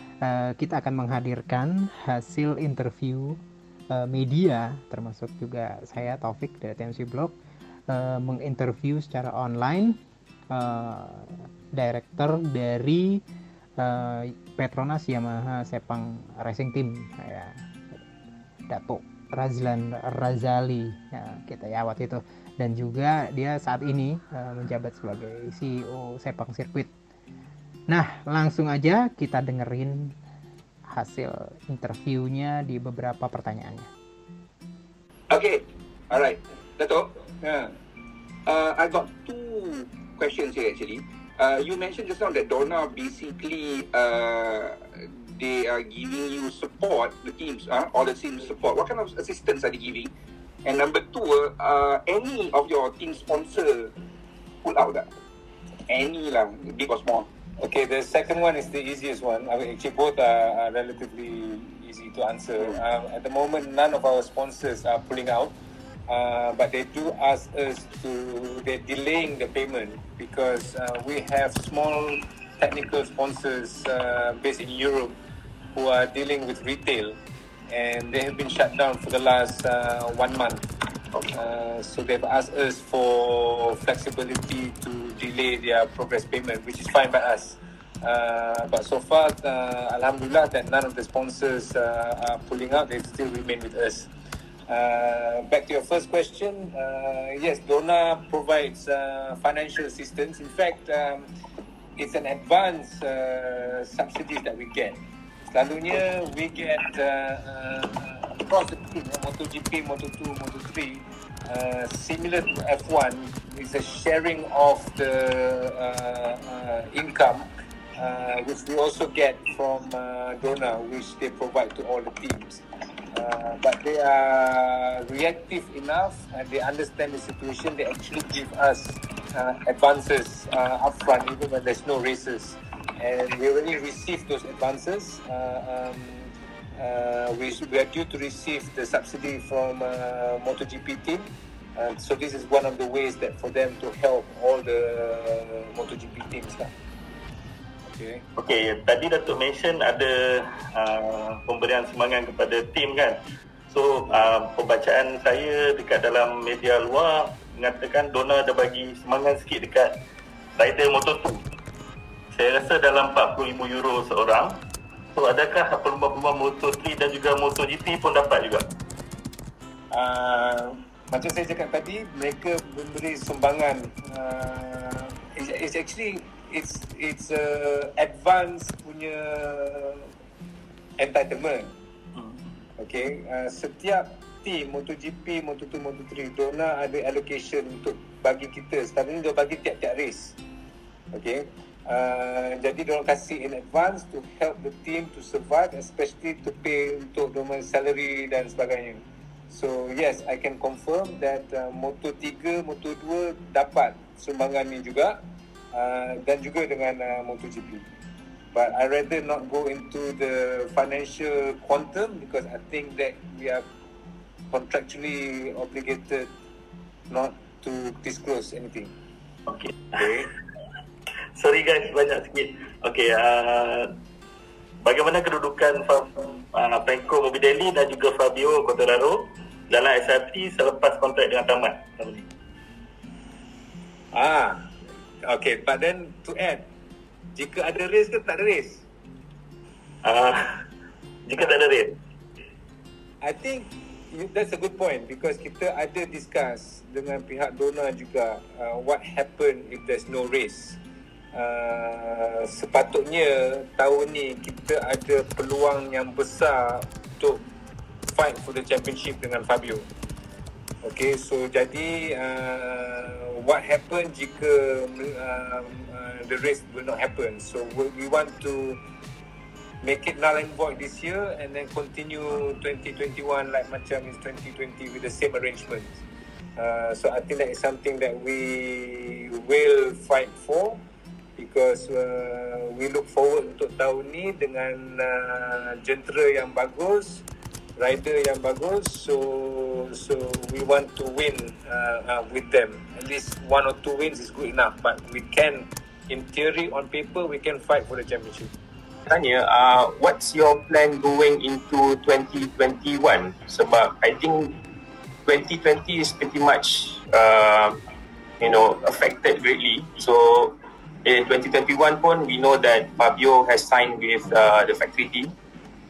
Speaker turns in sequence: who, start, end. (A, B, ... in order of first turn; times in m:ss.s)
0:00.2-0:03.4 A
0:03.9-0:07.3 A
0:07.9-0:09.9 A
0:10.5-0:13.2 A
0:13.8-0:18.0 A
0:18.7-0:26.9 A
0:27.9-0:30.1 A
0:30.9-0:33.9 A
0:35.3-0:37.1 B
0:38.5-0:50.1 B
0:50.6-0:53.9 B
0:54.6-0:55.1 B
0:55.9-0:57.3 B
0:57.6-1:05.6 C
1:06.1-1:15.2 C
1:15.7-1:17.2 C
1:17.7-1:20.6 C
1:21.3-1:34.1 C
1:34.7-1:41.3 C
1:42.0-1:45.0 C
1:45.5-2:02.6 C
2:03.1-2:26.7 C
2:27.9-2:28.2 C
2:28.4-2:33.2 D
2:33.7-2:39.9 D
2:40.6-2:41.4 D
2:42.3-2:44.6 D
2:45.1-2:48.7 D
2:49.9-3:00.1 C
3:01.0-3:01.7 C
3:02.2-3:02.4 D
3:02.8-3:10.4 C
3:11.1-3:25.2 C
3:25.7-3:27.8 C
3:28.5-3:33.6 C
3:34.5-3:36.3 C
3:37.1-3:38.9 C
3:39.5-3:40.3 D
3:41.4-3:43.9 D
3:44.8-3:52.2 D
3:54.1-3:54.7 C
3:55.2-3:56.7 C
3:57.4-3:58.8 C
4:00.0-4:00.6 D
4:01.2-4:02.0 D
4:03.2-4:10.8 C
4:11.3-4:17.4 C
4:18.1-4:19.8 C
4:20.8-4:28.8 C
4:29.8-4:36.0 C
4:36.6-4:40.8 C
4:41.4-4:47.2 C
4:47.8-4:58.5 C
4:59.1-5:04.6 E
5:05.2-5:07.8 E
5:08.4-5:15.3 E